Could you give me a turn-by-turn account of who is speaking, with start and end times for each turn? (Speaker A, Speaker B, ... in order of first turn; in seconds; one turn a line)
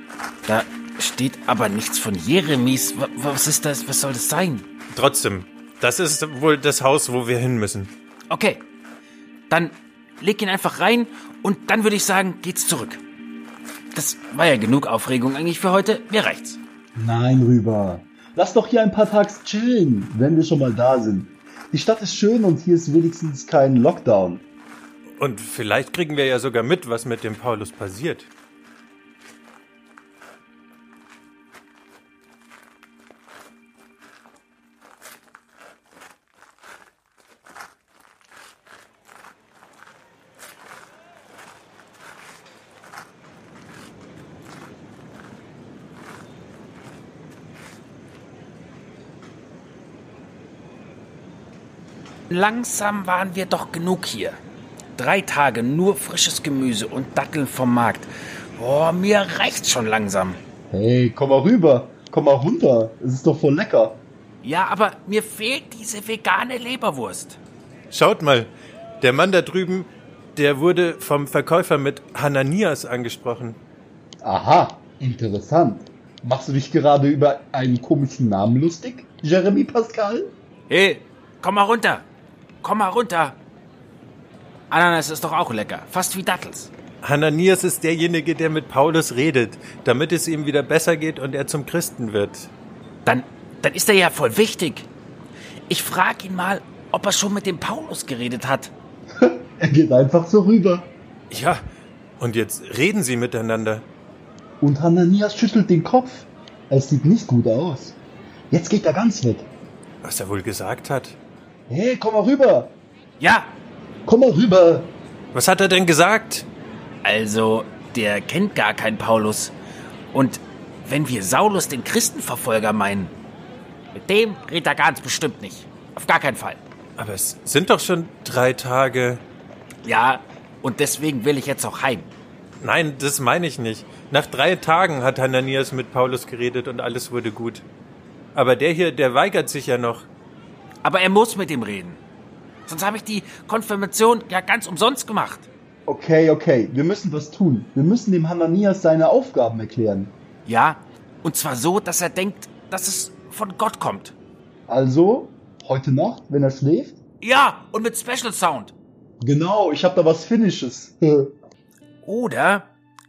Speaker A: 0.5-4.7
Speaker B: 4.9-7.9
Speaker A: 8.3-8.7
Speaker A: 9.5-13.0
Speaker A: 13.9-16.6
Speaker C: 16.9-24.4
Speaker B: 25.2-28.3
Speaker A: 52.3-54.4
Speaker A: 55.0-60.4
Speaker C: 60.7-64.0
Speaker A: 64.4-67.4
Speaker B: 67.9-73.6
Speaker C: 74.2-80.3
Speaker A: 80.7-82.0
Speaker A: 82.6-83.4
Speaker A: 84.7-86.7
Speaker B: 87.0-92.5
Speaker A: 93.0-94.9
Speaker A: 95.7-98.7
Speaker C: 99.2-100.9
Speaker B: 101.3-101.6
Speaker B: 102.2-103.9
Speaker C: 104.6-108.0
Speaker C: 108.5-109.5
Speaker B: 110.0-111.2
Speaker C: 111.7-112.8
Speaker A: 113.2-113.5
Speaker C: 114.0-114.9
Speaker B: 115.3-116.5
Speaker A: 117.0-119.5
Speaker A: 120.1-123.1
Speaker A: 123.9-126.6
Speaker B: 127.0-129.2
Speaker A: 129.8-132.1
Speaker B: 132.6-137.7
Speaker B: 138.3-140.1
Speaker A: 140.8-142.0
Speaker A: 142.7-145.5
Speaker C: 145.9-150.1
Speaker A: 150.4-154.1
Speaker C: 154.7-157.0
Speaker A: 157.2-158.7
Speaker C: 159.2-161.3
Speaker A: 162.0-162.7